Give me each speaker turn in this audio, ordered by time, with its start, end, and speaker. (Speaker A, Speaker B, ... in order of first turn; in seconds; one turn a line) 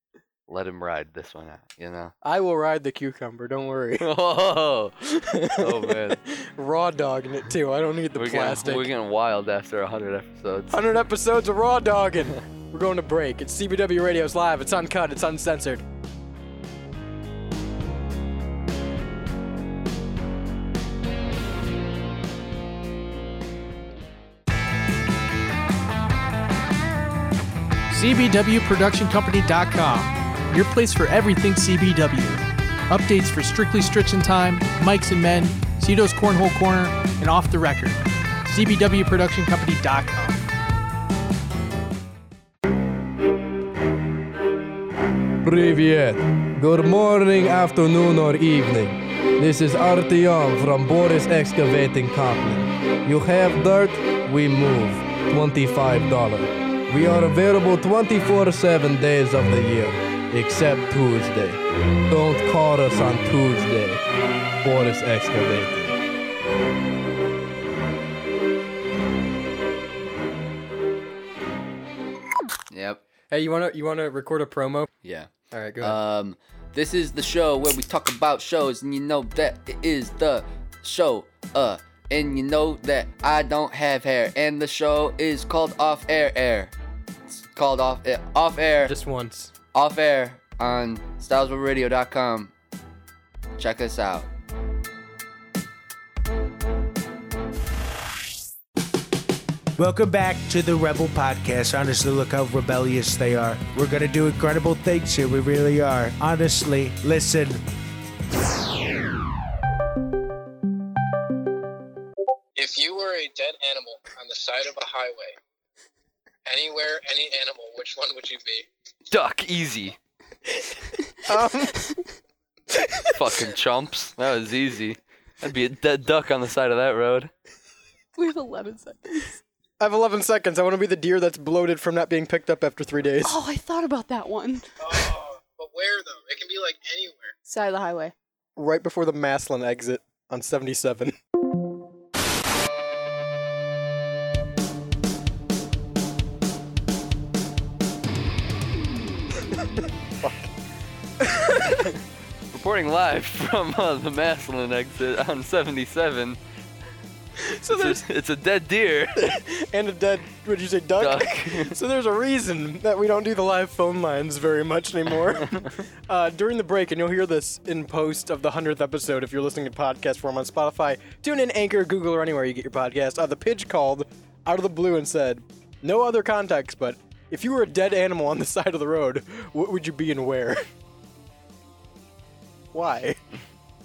Speaker A: 0.5-2.1
Speaker B: 2.2-4.1
Speaker A: 4.0-6.2
Speaker B: 5.2-8.9
Speaker A: 8.1-10.9
Speaker B: 10.7-15.8
Speaker C: 28.0-30.1
Speaker C: 30.6-31.9
Speaker C: 33.0-33.8
Speaker C: 36.1-37.9
Speaker C: 39.7-40.4
Speaker D: 45.4-64.0
Speaker D: 64.6-66.0
Speaker A: 72.7-73.0
Speaker B: 73.3-74.9
Speaker A: 75.0-86.7
Speaker B: 75.5-76.0
Speaker A: 87.3-88.9
Speaker B: 88.8-89.5
Speaker A: 89.7-92.5
Speaker A: 93.6-94.3
Speaker E: 99.8-107.6
Speaker F: 112.5-115.4
Speaker F: 116.5-118.7
Speaker A: 119.1-120.0
Speaker B: 121.2-121.8
Speaker G: 121.7-122.0
Speaker B: 122.7-123.2
Speaker A: 123.1-127.3
Speaker G: 128.2-129.4
Speaker B: 129.8-133.4
Speaker G: 133.2-134.7
Speaker F: 134.8-137.3
Speaker G: 137.5-138.1
Speaker B: 138.6-141.1
Speaker B: 150.2-150.5
Speaker B: 151.2-151.9
Speaker A: 152.5-156.4
Speaker B: 157.4-158.1
Speaker A: 157.7-159.4
Speaker B: 159.1-180.6
Speaker A: 161.0-161.8
Speaker B: 182.7-183.2